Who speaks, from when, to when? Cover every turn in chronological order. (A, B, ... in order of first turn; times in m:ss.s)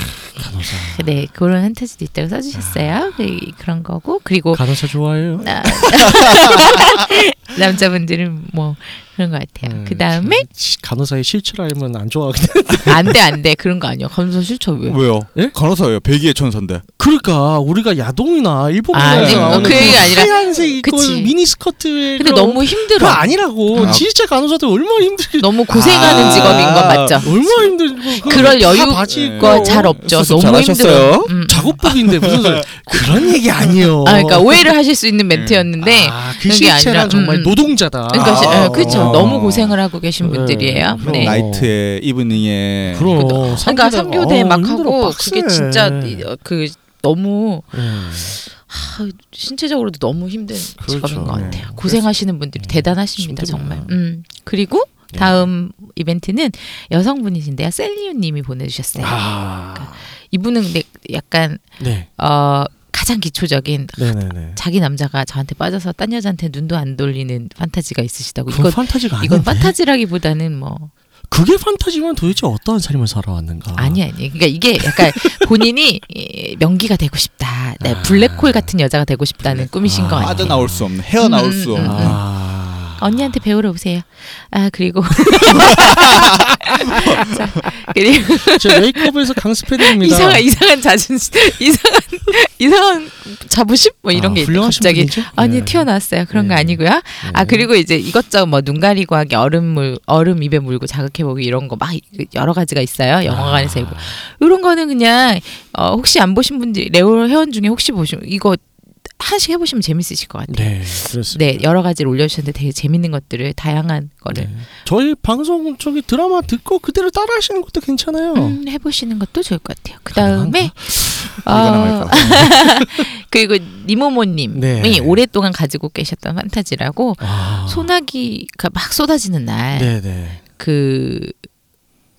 0:00.2-0:01.1 A
0:00.9-0:04.7 B
0:02.6-0:03.0 A
0:04.5-0:05.8 A
0:05.4-0:10.5 B
0:06.0-0:06.6 C
0:09.6-0:13.2 A
0:12.8-0:15.0 B
0:14.9-0:16.8 C
0:17.0-0:30.0 A
0:18.9-0:21.3 B
0:19.0-0:20.2 C
0:22.2-0:24.0 B
0:23.8-0:24.1 C
0:25.4-0:31.8 B
0:25.7-0:27.5 C
0:28.2-0:33.7 C
0:31.4-0:34.7 A
0:34.0-0:41.4 B
0:35.3-0:35.7 C
0:35.8-0:39.4 A
0:38.2-0:39.8 C
0:40.2-0:41.7 A
0:41.0-0:43.4 C
0:42.9-0:46.3 A
0:43.1-0:59.2 B
0:47.7-0:48.4 A
0:50.8-0:54.0 A
0:51.3-0:51.6 C
0:55.1-0:55.5 A
0:59.0-1:00.1 A
0:59.8-1:01.6 B
1:01.8-1:02.1 A
1:02.2-1:10.9 B
1:04.0-1:04.6 A
1:08.5-1:09.8 A
1:11.3-1:14.0 A
1:13.8-1:20.6 B
1:14.8-1:15.4 A
1:17.8-1:18.7 A
1:19.8-1:20.9 A
1:20.2-1:22.2 C
1:21.2-1:22.2 B
1:21.8-1:23.4 A
1:23.0-1:29.1 B
1:25.8-1:27.2 C
1:28.5-1:30.5 A
1:29.8-1:48.6 B
1:34.1-1:37.7 A
1:43.3-1:44.2 A
1:49.2-1:54.5 B
1:50.5-1:51.7 A
1:54.3-1:58.6 A
1:58.4-2:09.9 B
2:00.1-2:00.9 A
2:00.9-2:02.6 C
2:02.1-2:03.1 A
2:04.5-2:05.2 A
2:07.2-2:07.9 A
2:09.7-2:10.4 A
2:10.6-2:11.4 B